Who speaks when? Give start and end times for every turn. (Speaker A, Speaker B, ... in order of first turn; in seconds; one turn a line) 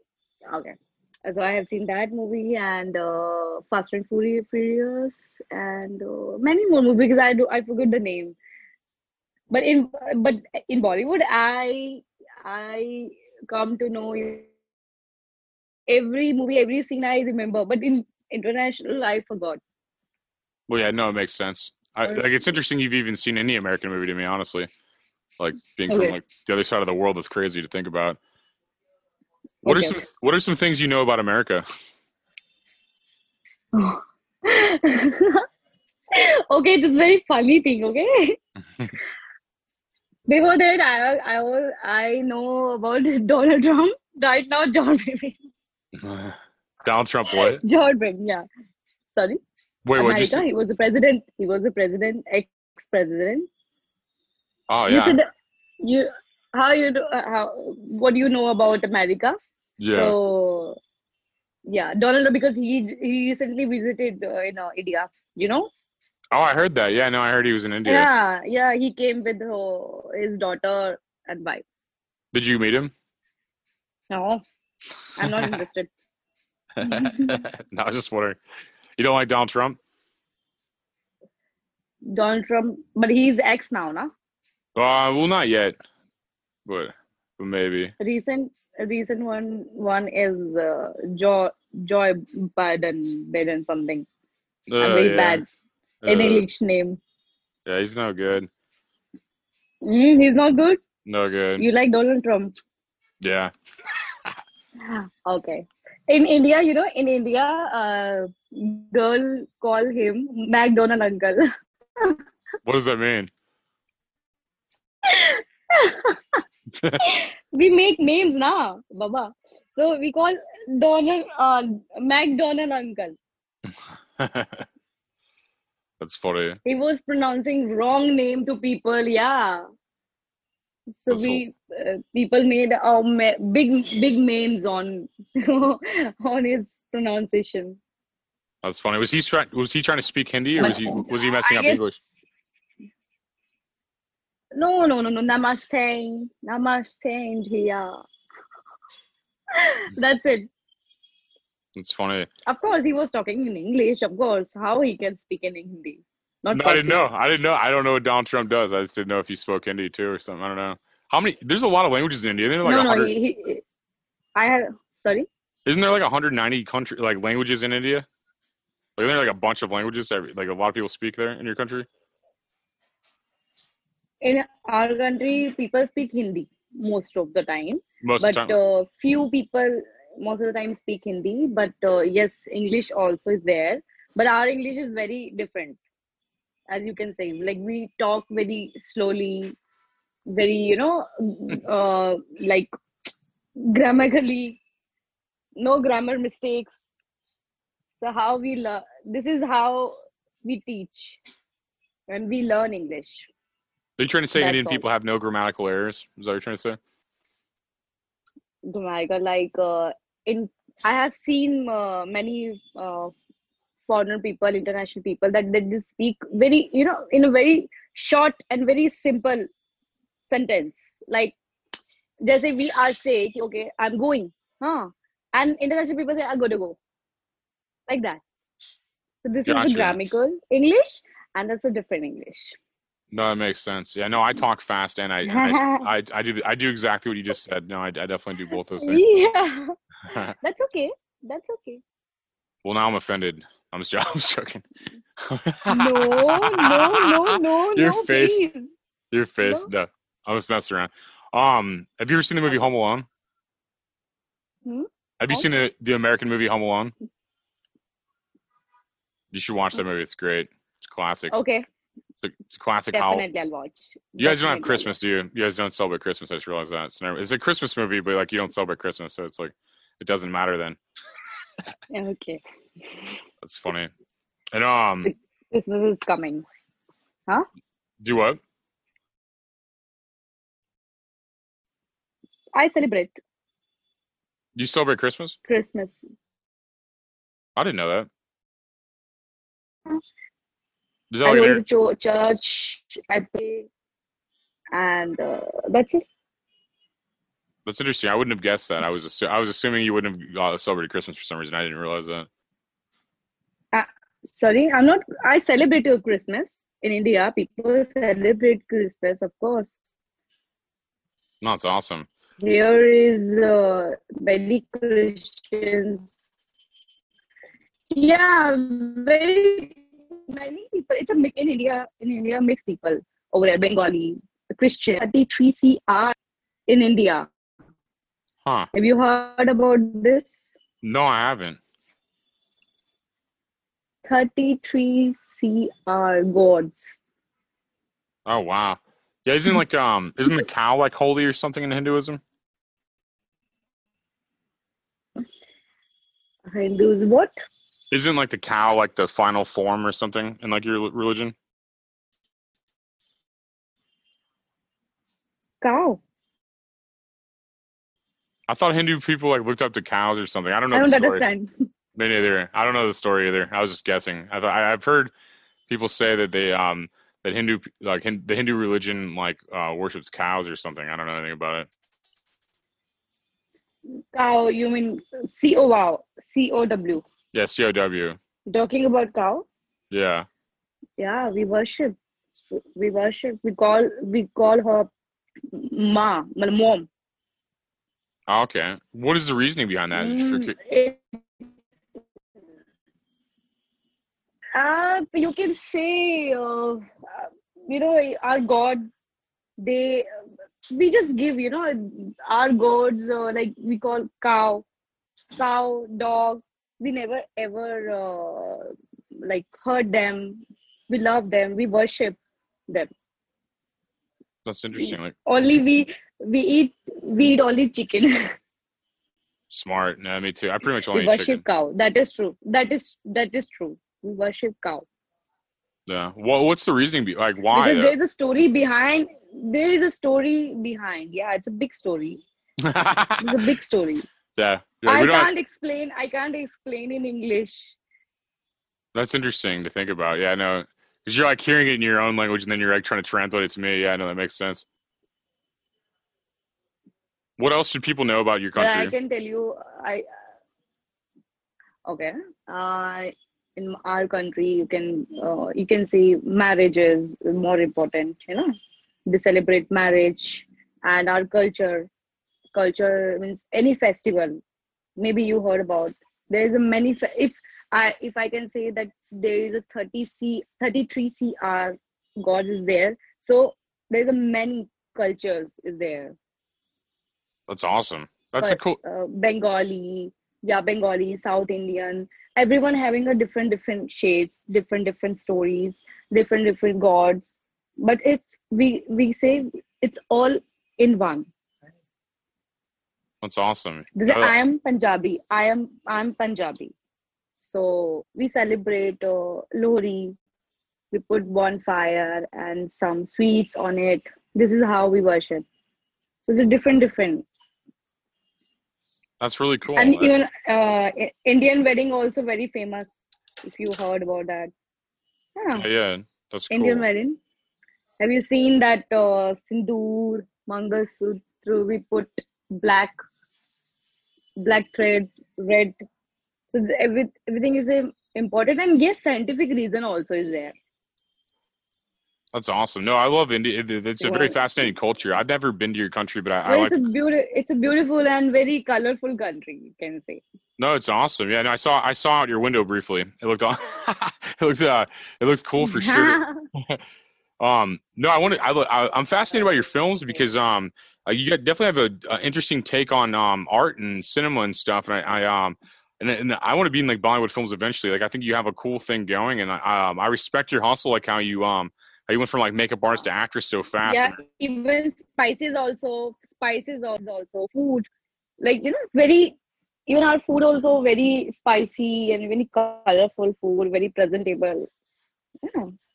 Speaker A: 0.5-8.4
Speaker A: 9.5-14.5
Speaker A: 15.9-19.6
Speaker B: 20.7-24.7
Speaker B: 25.4-28.2
Speaker A: 25.9-26.2
Speaker A: 29.6-30.0
Speaker B: 29.6-31.6
Speaker A: 33.7-35.5
Speaker A: 36.1-38.4
Speaker A: 40.3-45.4
Speaker B: 45.9-47.6
Speaker A: 47.3-48.5
Speaker A: 49.1-49.4
Speaker B: 49.9-50.5
Speaker A: 50.0-53.5
Speaker B: 54.7-55.2
Speaker A: 54.9-55.3
Speaker A: 55.8-59.4
Speaker B: 59.8-60.2
Speaker A: 59.9-60.8
Speaker A: 61.7-65.7
Speaker B: 66.3-68.1
Speaker A: 67.9-71.6
Speaker B: 72.3-72.9
Speaker A: 74.1-74.4
Speaker A: 75.2-75.9
Speaker B: 75.2-75.6
Speaker B: 76.8-78.4
Speaker A: 76.8-77.4
Speaker B: 79.0-79.8
Speaker A: 82.1-84.1
Speaker B: 84.8-85.8
Speaker B: 86.7-87.9
Speaker A: 88.0-94.1
Speaker B: 94.7-95.4
Speaker A: 94.8-95.5
Speaker B: 96.0-96.5
Speaker A: 96.1-97.0
Speaker B: 97.7-98.5
Speaker A: 99.8-100.8
Speaker B: 101.0-101.7
Speaker A: 101.6-102.5
Speaker B: 103.2-103.5
Speaker A: 104.8-111.5
Speaker B: 112.7-113.3
Speaker A: 115.0-116.4
Speaker B: 116.7-117.0
Speaker A: 117.0-123.2
Speaker B: 123.7-124.7
Speaker B: 126.0-126.6
Speaker A: 126.7-129.6
Speaker A: 131.0-137.8
Speaker B: 131.1-131.4
Speaker B: 138.6-142.0
Speaker A: 140.6-142.2
Speaker A: 144.6-148.0
Speaker A: 149.6-150.5
Speaker B: 151.8-152.3
Speaker A: 152.5-157.0
Speaker B: 156.5-163.1
Speaker A: 162.6-163.6
Speaker A: 164.4-165.3
Speaker B: 165.7-168.1
Speaker B: 169.0-171.9
Speaker A: 174.2-185.8
Speaker B: 178.0-178.6
Speaker A: 186.7-189.6
Speaker A: 190.3-192.7
Speaker A: 193.6-194.6
Speaker A: 195.6-196.8
Speaker A: 198.0-201.2
Speaker A: 202.1-203.3
Speaker B: 204.0-206.8
Speaker A: 204.3-204.8
Speaker A: 208.7-213.1
Speaker A: 213.8-219.5
Speaker A: 220.3-221.4
Speaker A: 222.2-226.8
Speaker A: 227.9-228.2
Speaker A: 229.2-232.6
Speaker B: 229.5-230.0
Speaker B: 233.1-239.0
Speaker A: 235.3-235.9
Speaker A: 238.8-239.8
Speaker B: 240.1-240.3
Speaker A: 240.4-241.8
Speaker B: 242.6-244.7
Speaker B: 245.2-248.4
Speaker A: 245.7-248.7
Speaker B: 249.1-253.1
Speaker A: 249.4-249.7
Speaker A: 254.7-255.5
Speaker B: 255.2-256.9
Speaker B: 259.3-261.3
Speaker A: 261.3-261.6
Speaker B: 262.2-263.3
Speaker A: 262.9-264.9
Speaker B: 264.2-270.8
Speaker A: 271.9-273.1
Speaker B: 273.4-273.9
Speaker B: 274.5-275.1
Speaker A: 275.1-276.4
Speaker B: 278.0-278.4
Speaker A: 282.6-283.1
Speaker B: 284.6-285.4
Speaker A: 285.5-286.0
Speaker B: 287.6-288.1
Speaker B: 291.1-291.6
Speaker A: 291.2-293.7
Speaker A: 294.7-296.0
Speaker B: 297.6-302.3
Speaker A: 303.7-309.7
Speaker B: 311.4-312.1
Speaker A: 312.4-316.1
Speaker A: 317.9-326.1
Speaker A: 326.7-327.3
Speaker A: 328.7-330.3
Speaker B: 330.8-331.6
Speaker A: 334.1-337.0
Speaker B: 338.3-342.2
Speaker A: 346.5-347.3
Speaker B: 347.9-351.4
Speaker A: 355.6-356.0
Speaker B: 358.5-361.2
Speaker A: 360.7-361.5
Speaker B: 361.9-365.1
Speaker B: 365.7-371.7
Speaker A: 373.9-377.1
Speaker B: 377.3-378.2
Speaker A: 378.5-379.5
Speaker B: 379.9-380.3
Speaker A: 381.0-381.9
Speaker A: 382.5-384.9
Speaker A: 385.5-386.9
Speaker B: 388.3-390.6
Speaker A: 389.9-391.1
Speaker A: 394.6-398.9
Speaker A: 399.6-400.1
Speaker A: 400.7-404.6
Speaker A: 405.4-408.7
Speaker A: 409.2-412.2
Speaker B: 414.4-415.2
Speaker A: 414.8-418.1
Speaker B: 419.5-421.4
Speaker A: 420.9-424.9
Speaker B: 425.9-427.9
Speaker A: 427.5-432.2
Speaker B: 432.6-433.4
Speaker A: 433.2-434.1
Speaker B: 434.4-435.3
Speaker A: 434.9-437.8
Speaker B: 438.9-444.6
Speaker B: 447.4-448.9
Speaker A: 448.6-450.1
Speaker A: 451.9-458.5
Speaker A: 459.1-461.9
Speaker A: 462.5-464.4
Speaker A: 465.0-476.1
Speaker B: 477.5-478.8
Speaker A: 478.4-491.3
Speaker B: 493.2-494.4
Speaker A: 494.0-496.7
Speaker A: 497.4-500.2
Speaker A: 500.9-505.5
Speaker A: 506.3-507.3
Speaker B: 509.2-510.1
Speaker A: 509.8-512.9
Speaker A: 513.4-514.5
Speaker A: 515.4-515.7
Speaker B: 515.5-516.9
Speaker A: 516.5-517.2
Speaker A: 518.0-523.0
Speaker A: 524.4-525.8
Speaker A: 526.5-530.5
Speaker B: 532.3-536.8
Speaker A: 534.0-534.4
Speaker A: 536.5-540.2
Speaker B: 540.6-546.8
Speaker A: 545.6-546.5
Speaker B: 547.4-564.2
Speaker A: 563.9-567.9
Speaker A: 568.4-574.7
Speaker A: 575.5-575.7